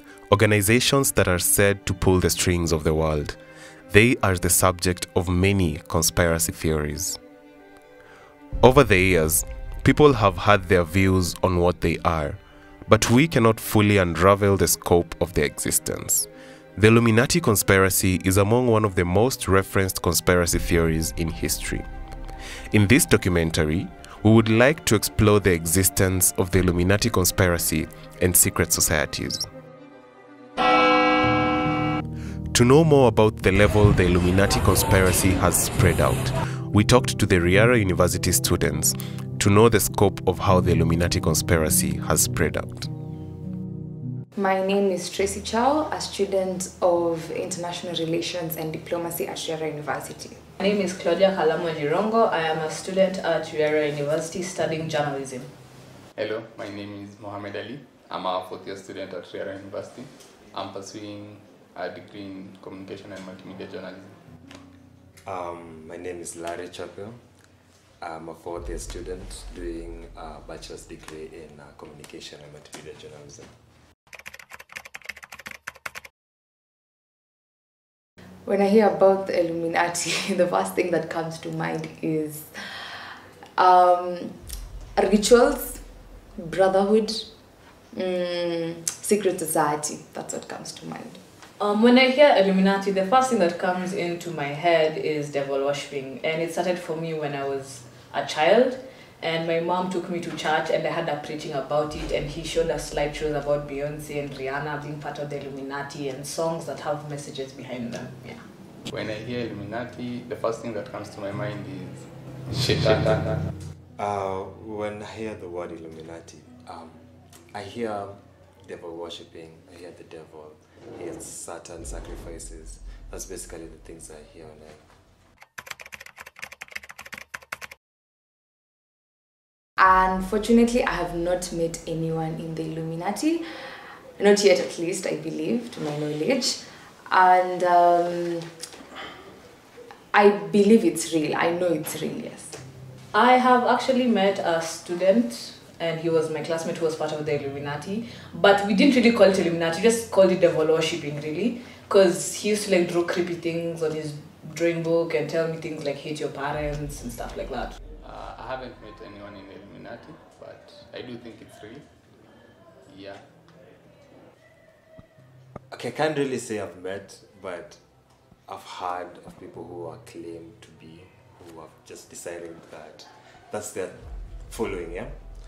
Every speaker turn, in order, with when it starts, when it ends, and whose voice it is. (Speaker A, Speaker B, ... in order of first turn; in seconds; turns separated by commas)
Speaker A: 0.3-3.4, Speaker A: 3.9-7.2, Speaker A: 8.6-21.9, Speaker A: 22.7-29.4, Speaker A: 32.5-42.9, Speaker B: 44.4-50.4, Speaker C: 50.6-55.5, Speaker D: 56.2-64.2, Speaker E: 65.2-67.1, Speaker E: 68.0-73.5, Speaker B: 78.5-84.3, Speaker B: 85.0-85.8, Speaker B: 86.4-87.2, Speaker B: 87.9-91.2, Speaker C: 91.6-108.4, Speaker D: 108.9-113.4, Speaker E: 114.0-124.8, Speaker B: 129.8-133.4, Speaker B: 134.2-138.4, Speaker B: 140.1-142.6, Speaker C: 143.1-157.8, Speaker D: 158.0-161.9, Speaker D: 162.9-163.2, Speaker E: 165.7-167.8, Speaker E: 168.5-173.9, Speaker E: 174.5-175.1